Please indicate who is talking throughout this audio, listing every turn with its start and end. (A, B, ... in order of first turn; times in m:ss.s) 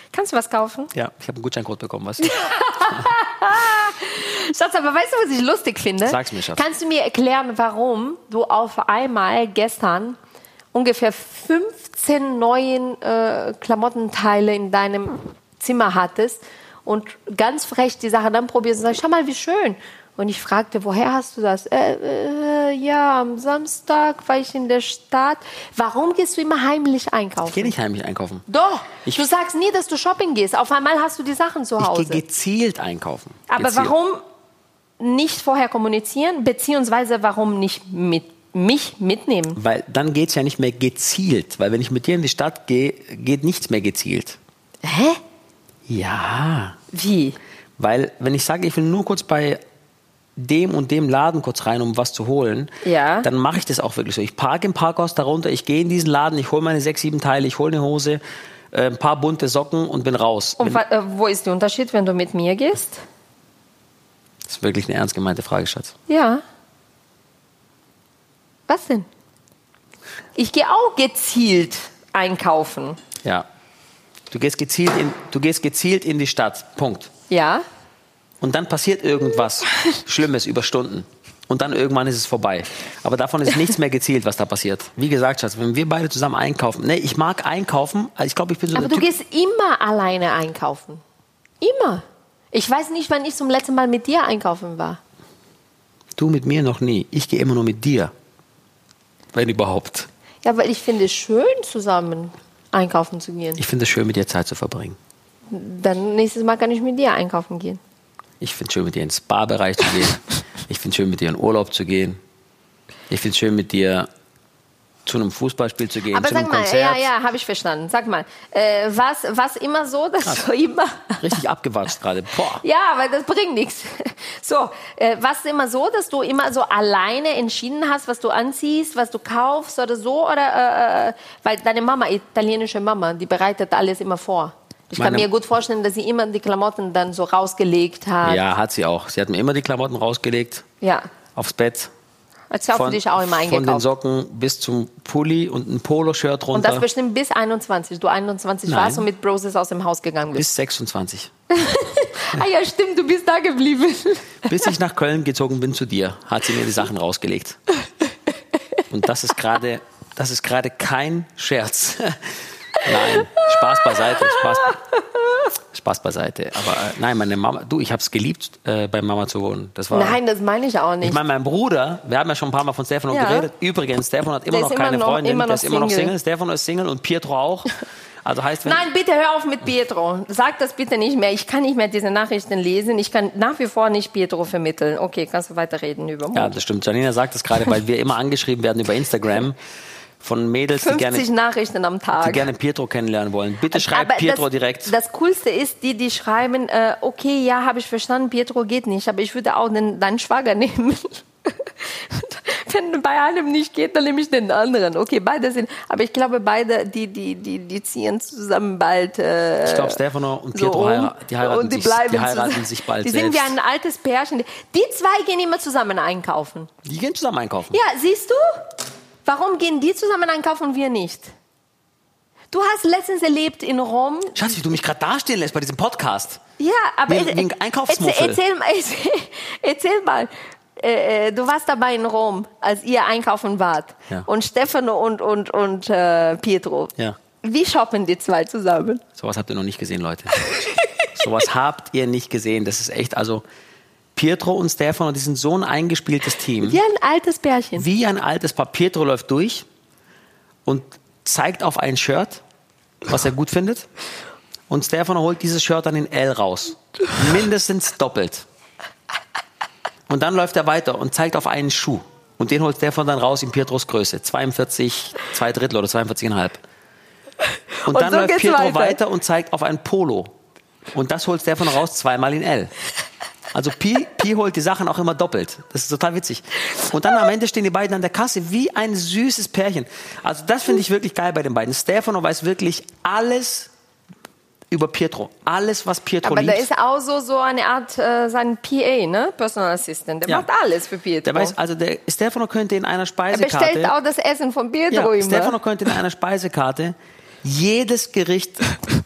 0:00.1-0:00.9 A
0:00.9-0:03.1 B
0:02.2-0:10.2 A
0:06.0-0:06.6 B
0:10.7-0:27.7 A
0:27.4-0:28.4 B
0:28.5-0:32.2 A
0:31.8-0:33.9 B
0:33.5-0:34.2 A
0:35.0-0:39.6 A
0:39.5-0:44.4 B
0:44.8-0:45.2 A
0:45.9-0:46.8 B
0:46.9-0:47.4 A
0:47.8-0:49.6 B
0:50.4-0:58.2 B
0:52.8-0:53.3 A
0:58.7-1:00.8 B
1:00.6-1:03.0 A
1:04.5-1:05.9 B
1:06.1-1:06.4 A
1:08.7-1:09.1 A
1:10.4-1:13.0 A
1:14.3-1:17.1 B
1:17.3-1:17.6 A
1:18.4-1:29.1 B
1:28.7-1:31.0 A
1:31.6-1:35.0 A
1:36.2-1:38.1 B
1:39.3-1:40.1 B
1:40.4-1:43.6 A
1:43.6-1:45.0 B
1:45.5-1:47.8 A
1:48.4-1:52.2 B
1:53.1-1:54.1 B
1:55.0-1:57.1 B
1:56.1-2:01.4 A
2:01.2-2:02.6 B
2:02.5-2:18.4 A
2:15.0-2:15.3 B
2:18.2-2:20.6 B
2:20.8-2:21.1 A
2:21.3-2:21.9 B
2:22.5-2:23.9 A
2:22.7-2:26.8 B
2:26.5-2:30.4 A
2:28.7-2:29.0 B
2:30.3-2:31.3 B
2:31.5-2:34.7 A
2:34.4-2:37.6 B
2:38.9-2:44.8 B
2:43.0-2:44.9 A
2:45.7-2:50.2 B
2:49.9-2:51.2 A
2:51.0-2:58.8 B
2:53.1-2:53.5 A
2:54.5-2:56.1 A
2:58.6-3:06.6 A
3:06.3-3:09.6 B
3:10.2-3:11.2 B
3:10.8-3:12.5 A
3:12.2-3:14.9 B
3:13.7-3:30.0 A
3:29.6-3:33.5 B
3:30.5-3:36.7 A
3:36.8-3:37.8 B
3:37.7-3:38.6 A
3:39.2-3:41.3 A
3:42.5-3:44.6 A
3:44.3-3:46.4 B
3:46.6-3:59.0 A
3:47.1-3:48.4 B
3:59.2-4:00.4 B
4:00.4-4:00.9 A
4:01.1-4:03.4 B
4:04.1-4:06.8 B
4:06.6-4:07.8 A
4:07.8-4:09.6 B
4:10.6-4:12.4 B
4:13.1-4:13.9 B
4:14.7-4:18.4 B
4:20.1-4:26.6 B
4:27.5-4:29.0 A
4:27.8-4:30.3 B
4:30.9-4:32.7 B
4:33.5-4:43.7 B
4:44.7-4:46.7 B
4:46.2-4:51.5 A
4:51.2-4:53.9 B
4:53.3-4:55.6 A
4:54.9-4:58.7 B